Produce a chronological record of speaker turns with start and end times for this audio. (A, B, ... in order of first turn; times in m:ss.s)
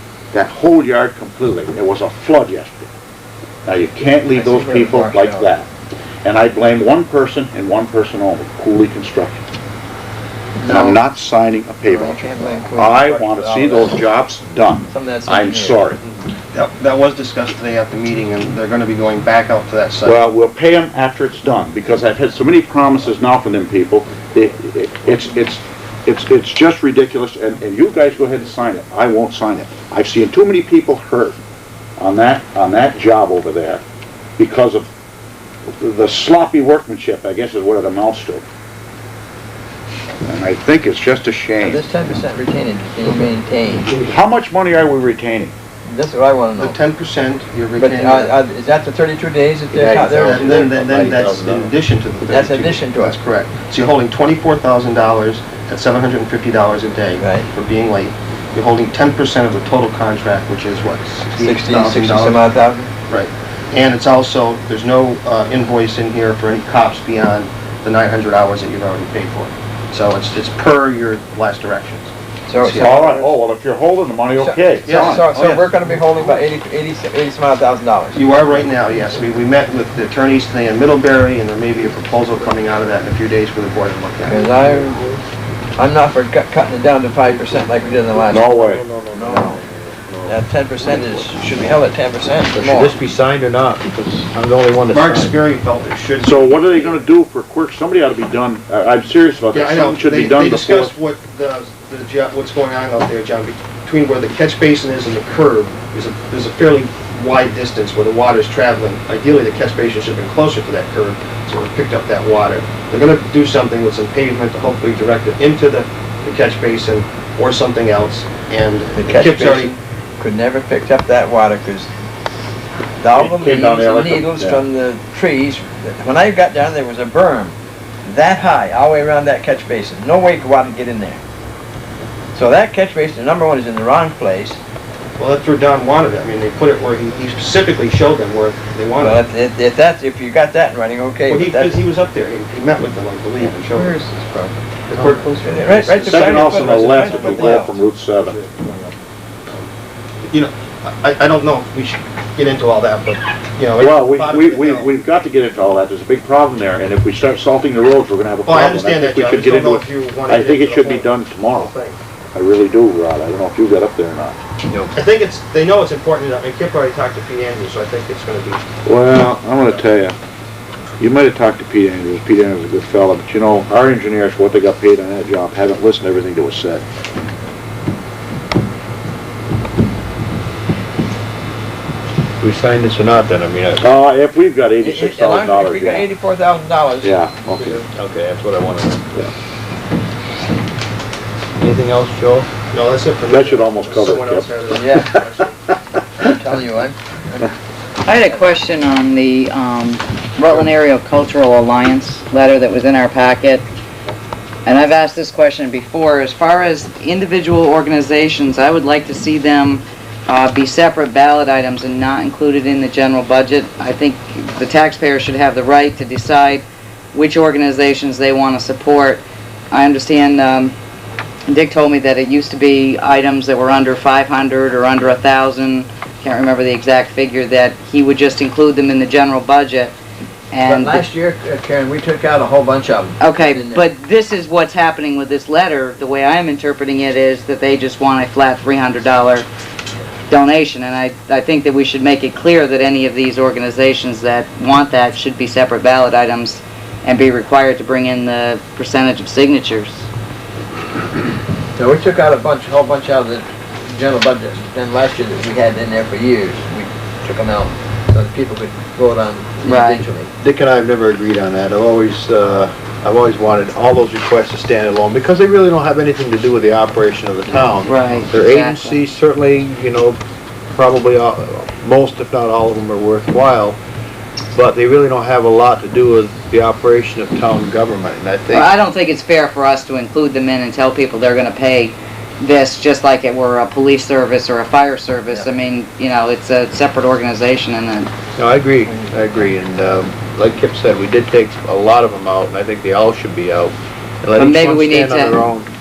0:00.3-0:02.9 A
0:03.6-0:05.7 A
0:04.3-0:05.5 B
0:06.2-0:09.4 A
0:10.6-0:11.0 B
0:10.7-0:16.0 A
0:11.8-0:13.9 B
0:14.9-0:15.8 B
0:16.5-0:20.2 C
0:20.0-0:31.4 A
0:32.0-0:33.8 A
0:34.4-0:34.9 A
0:35.8-0:38.4 A
0:40.2-0:41.8 A
0:41.7-0:43.9 B
0:43.9-0:45.5 A
0:45.9-0:46.8 B
0:46.6-0:48.4 C
0:47.8-0:50.4 B
0:49.7-0:51.7 D
0:50.0-1:02.4 C
0:52.3-0:53.2 B
0:57.2-0:57.5 B
1:01.4-1:02.9 B
1:03.1-1:13.3 C
1:12.5-1:12.9 B
1:12.8-1:15.3 A
1:14.4-1:18.3 B
1:14.8-1:15.6 C
1:18.1-1:24.4 C
1:24.2-1:25.0 B
1:25.8-1:28.4 B
1:28.3-1:28.8 A
1:28.9-1:29.6 D
1:29.2-1:29.6 B
1:30.2-1:32.9 B
1:32.5-1:35.3 D
1:34.9-1:37.0 C
1:36.2-1:40.9 A
1:39.5-1:59.8 C
1:59.0-2:01.9 B
2:03.0-2:11.2 B
2:03.1-2:04.6 A
2:12.3-2:14.6 B
2:15.2-2:19.2 C
2:19.0-2:21.8 B
2:21.3-2:24.0 C
2:24.9-2:29.0 C
2:25.5-2:27.7 B
2:26.0-2:28.4 A
2:30.2-2:34.9 C
2:33.8-2:41.7 A
2:38.4-2:42.0 C
2:42.3-2:44.4 A
2:44.9-2:48.7 C
2:48.8-2:50.2 A
2:49.6-2:49.8 C
2:51.0-2:56.8 A
3:02.4-3:03.8 D
3:03.8-3:06.1 A
3:04.8-3:07.9 B
3:07.0-3:07.8 A
3:07.9-3:09.0 D
3:11.6-3:12.5 D
3:12.7-3:15.8 C
3:13.3-3:15.0 A
3:14.7-3:15.2 B
3:16.2-3:17.5 B
3:18.0-3:23.6 E
3:24.6-3:40.7 E
3:41.5-3:49.9 E
3:50.5-3:51.0 E
3:50.7-3:53.8 B
3:53.2-3:59.5 E
4:00.3-4:10.0 E
4:11.8-4:20.3 B
4:19.6-4:20.0 E
4:20.4-4:30.2 D
4:27.8-4:29.0 E
4:30.7-4:33.8 D
4:34.5-4:38.7 D
4:38.5-4:48.1 E
4:48.4-4:55.7 D
4:54.4-4:55.4 E